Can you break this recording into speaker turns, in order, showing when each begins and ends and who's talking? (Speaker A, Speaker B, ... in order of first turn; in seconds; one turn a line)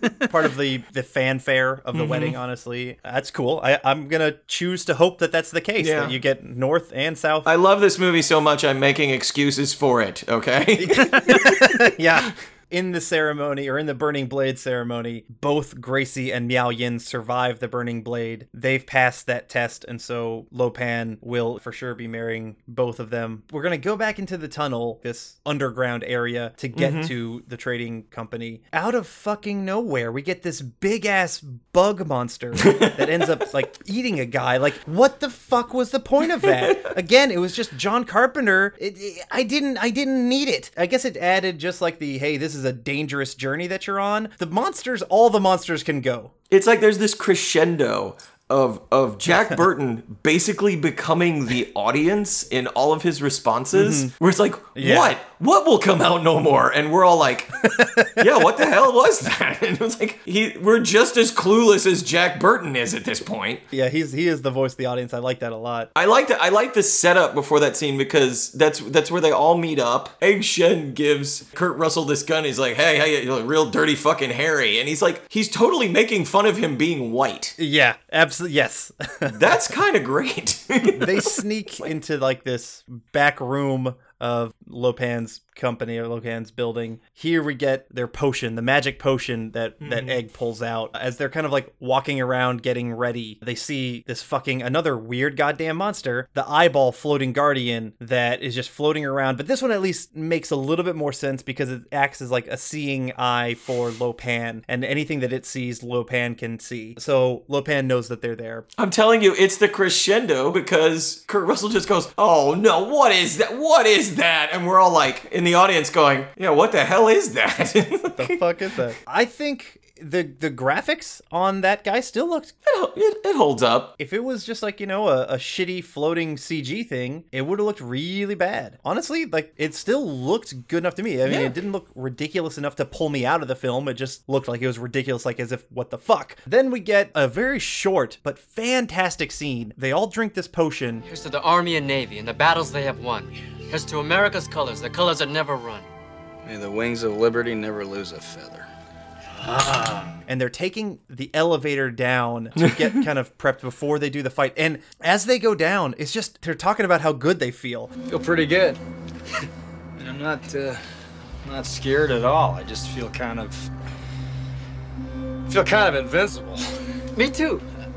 Speaker A: 0.3-7.5
Speaker B: 1.9-2.4
Speaker B: 5.8-6.2
Speaker B: 7.5-11.9
Speaker A: 10.8-46.3
Speaker B: 26.8-27.1
Speaker B: 32.6-33.3
Speaker B: 36.2-36.9
Speaker B: 46.5-63.6
Speaker A: 53.7-54.1
Speaker A: 54.8-55.2
Speaker A: 57.8-58.2
Speaker A: 63.7-65.9
Speaker B: 66.0-77.6
Speaker A: 77.6-79.6
Speaker B: 79.3-81.4
Speaker A: 80.9-108.7
Speaker B: 89.8-90.2
Speaker B: 108.8-118.4
Speaker A: 118.2-122.5
Speaker B: 122.7-123.9
Speaker A: 124.0-141.0
Speaker B: 131.3-131.5
Speaker C: 141.1-145.9
Speaker D: 146.4-148.7
Speaker D: 149.5-150.0
Speaker A: 150.3-157.9
Speaker B: 152.6-152.9
Speaker D: 158.1-158.8
Speaker D: 160.0-160.8
Speaker D: 161.4-163.7
Speaker D: 165.5-166.6
Speaker C: 167.2-167.6